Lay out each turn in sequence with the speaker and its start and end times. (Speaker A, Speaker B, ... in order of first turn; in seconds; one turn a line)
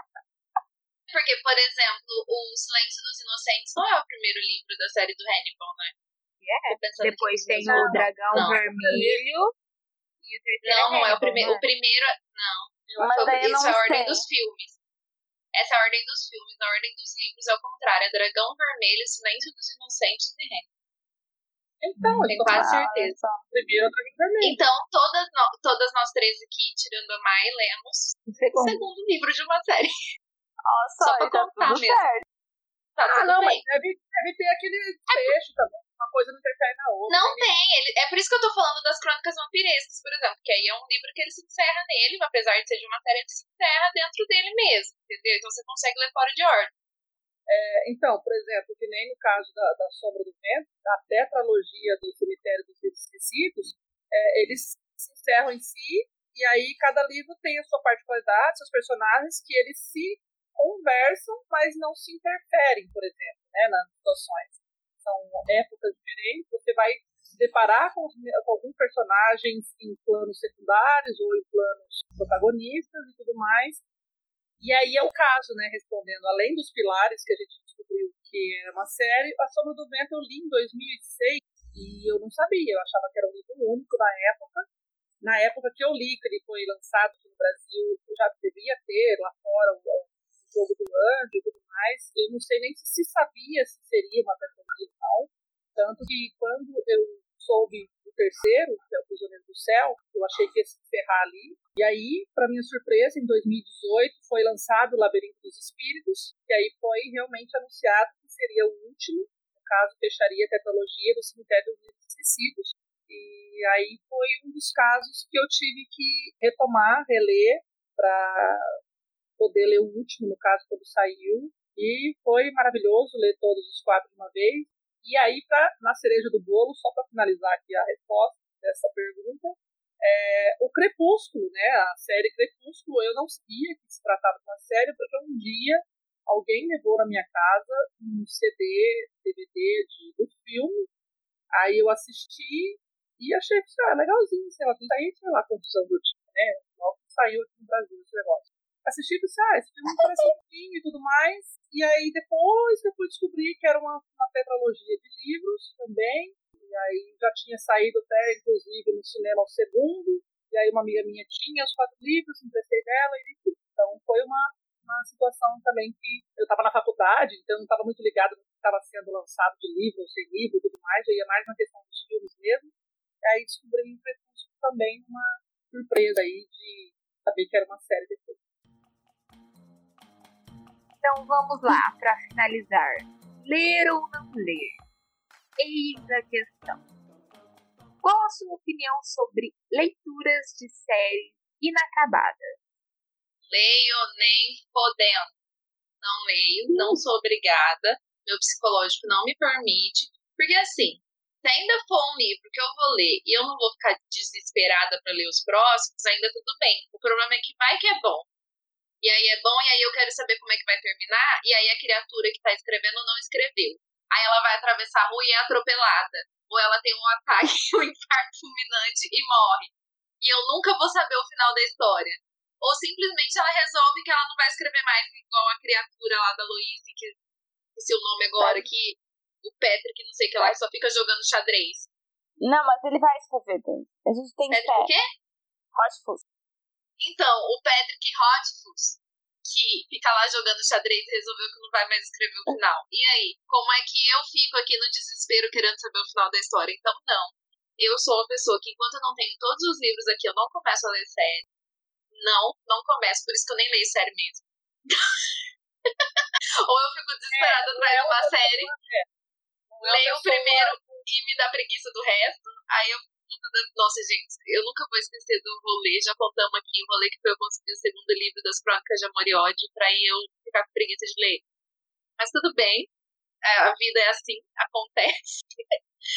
Speaker A: 1.1-5.9
Speaker B: 6.4-9.5
Speaker A: 6.7-8.7
Speaker C: 8.8-9.2
Speaker B: 10.2-11.6
Speaker A: 10.6-14.8
Speaker C: 12.9-13.4
Speaker D: 13.0-14.2
Speaker A: 15.5-20.6
Speaker C: 21.8-22.7
Speaker A: 22.3-23.2
Speaker D: 22.5-23.4
Speaker C: 23.5-24.6
Speaker A: 24.4-29.9
Speaker B: 28.3-28.9
Speaker D: 30.7-32.2
Speaker A: 31.0-32.0
Speaker A: 33.0-33.6
Speaker C: 33.1-37.5
Speaker A: 35.1-35.4
Speaker A: 37.1-46.7
Speaker C: 47.5-73.8
Speaker C: 74.6-84.7
Speaker C: 85.2-118.8
Speaker C: 119.4-140.9
Speaker C: 141.5-178.4
Speaker B: 181.0-184.8
Speaker B: 185.6-186.8
Speaker B: 188.0-192.6
Speaker A: 193.5-195.3
Speaker A: 196.0-208.3
Speaker A: 209.0-227.2
Speaker A: 227.8-231.9
Speaker D: 228.4-228.7
Speaker D: 232.4-234.9
Speaker A: 234.5-235.1
Speaker D: 235.8-236.2
Speaker A: 237.0-251.4
Speaker A: 252.1-258.7
Speaker C: 257.3-259.1
Speaker C: 259.7-261.1
Speaker A: 259.8-271.4
Speaker A: 272.2-272.9
Speaker A: 273.4-275.8